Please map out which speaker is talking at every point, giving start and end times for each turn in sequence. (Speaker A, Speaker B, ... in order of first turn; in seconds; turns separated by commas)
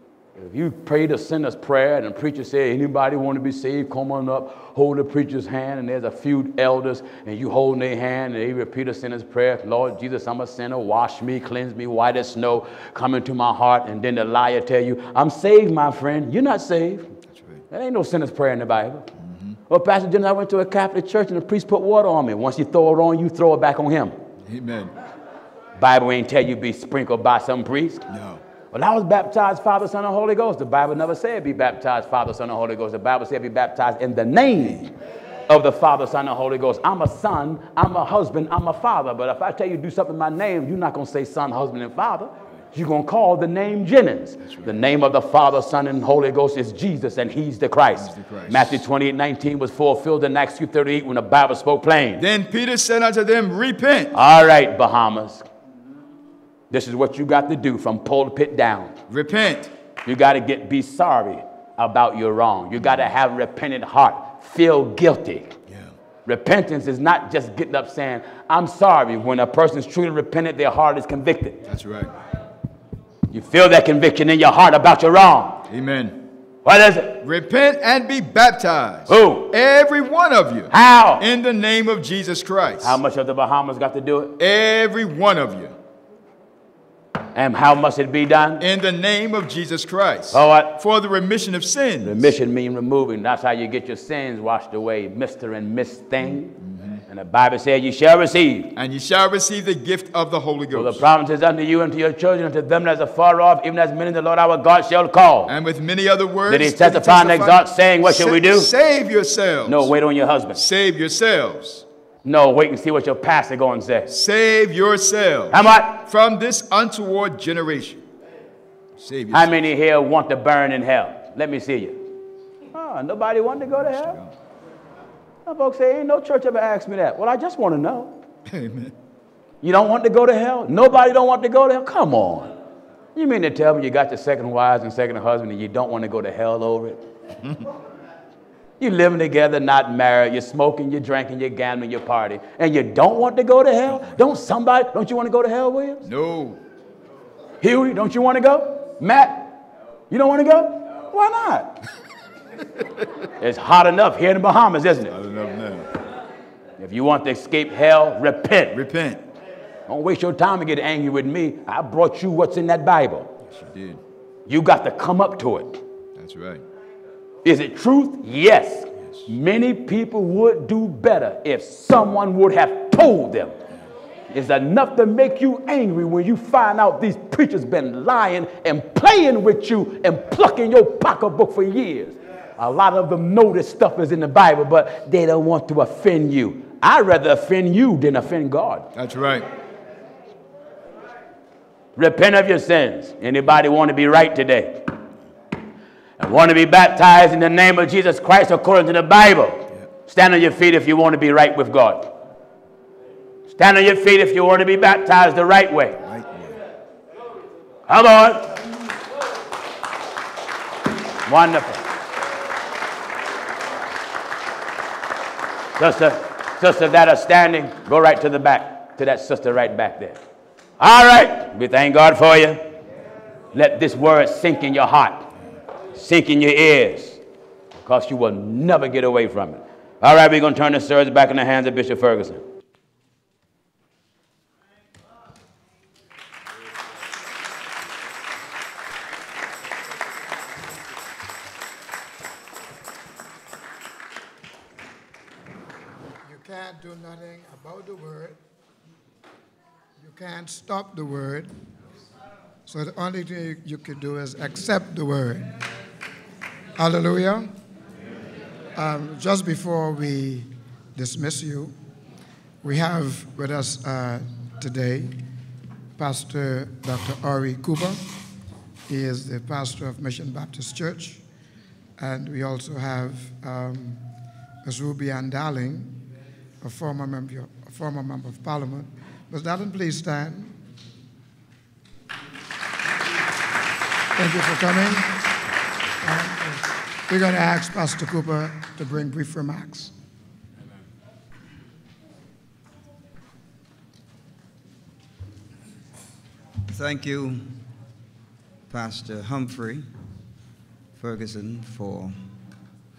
Speaker A: 0.4-17.1, Speaker B: 17.3-17.6, Speaker A: 17.7-19.1, Speaker B: 19.2-19.5, Speaker A: 19.7-24.1, Speaker B: 24.5-24.9, Speaker A: 25.8-28.0, Speaker B: 28.1-28.4, Speaker A: 28.7-34.9, Speaker A: 35.5-52.2, Speaker B: 44.5-44.7, Speaker B: 48.0-48.8, Speaker B: 52.2-54.1, Speaker A: 54.1-55.4, Speaker A: 56.7-58.9, Speaker B: 59.1-59.7, Speaker A: 60.0-65.5, Speaker A: 66.2-71.6, Speaker B: 71.7-72.1, Speaker A: 73.3-75.6, Speaker B: 75.7-76.2, Speaker A: 76.6-77.2, Speaker B: 77.2-83.0, Speaker A: 79.1-79.5, Speaker A: 80.7-81.2, Speaker A: 82.8-84.4, Speaker B: 84.4-85.7, Speaker A: 87.3-88.6, Speaker B: 88.6-92.3, Speaker A: 90.3-90.8, Speaker A: 92.0-96.5, Speaker B: 96.6-97.0, Speaker A: 97.1-98.7, Speaker B: 98.8-101.0, Speaker A: 100.7-105.5, Speaker B: 105.5-109.9, Speaker A: 106.5-108.7, Speaker A: 109.7-110.6, Speaker B: 110.5-111.8, Speaker A: 112.2-114.1, Speaker B: 114.1-118.0, Speaker A: 115.5-116.0, Speaker B: 119.0-119.5, Speaker A: 119.3-122.0, Speaker A: 122.7-124.2, Speaker B: 123.9-124.3, Speaker A: 125.5-128.1, Speaker B: 128.5-128.9, Speaker A: 129.6-132.5, Speaker A: 133.1-137.0, Speaker A: 138.8-146.0, Speaker B: 146.1-146.6, Speaker A: 147.6-149.5, Speaker A: 150.1-151.8, Speaker A: 153.4-155.1, Speaker B: 155.1-155.9, Speaker A: 156.8-158.7, Speaker B: 158.7-159.2, Speaker A: 159.9-163.3, Speaker B: 163.5-164.0, Speaker A: 164.5-165.8, Speaker B: 166.2-166.6, Speaker A: 167.4-173.5, Speaker A: 174.3-188.9, Speaker B: 188.9-189.4, Speaker A: 191.9-194.9, Speaker A: 196.2-202.1, Speaker A: 203.5-206.0, Speaker B: 206.0-206.6, Speaker A: 207.9-208.5, Speaker A: 211.2-211.8, Speaker A: 215.7-220.2, Speaker A: 220.8-222.6, Speaker A: 223.5-225.3, Speaker A: 225.9-227.2, Speaker A: 227.8-232.4, Speaker C: 246.2-248.4, Speaker C: 250.0-251.5, Speaker C: 252.7-255.5, Speaker C: 256.8-257.5, Speaker C: 258.8-261.7, Speaker C: 262.6-265.1, Speaker C: 266.0-268.0, Speaker C: 268.9-271.2, Speaker C: 272.0-274.0, Speaker C: 274.6-276.0, Speaker C: 276.6-280.5, Speaker C: 284.1-285.3, Speaker C: 286.0-289.9, Speaker D: 296.7-297.4, Speaker D: 298.7-299.9, Speaker D: 301.0-302.1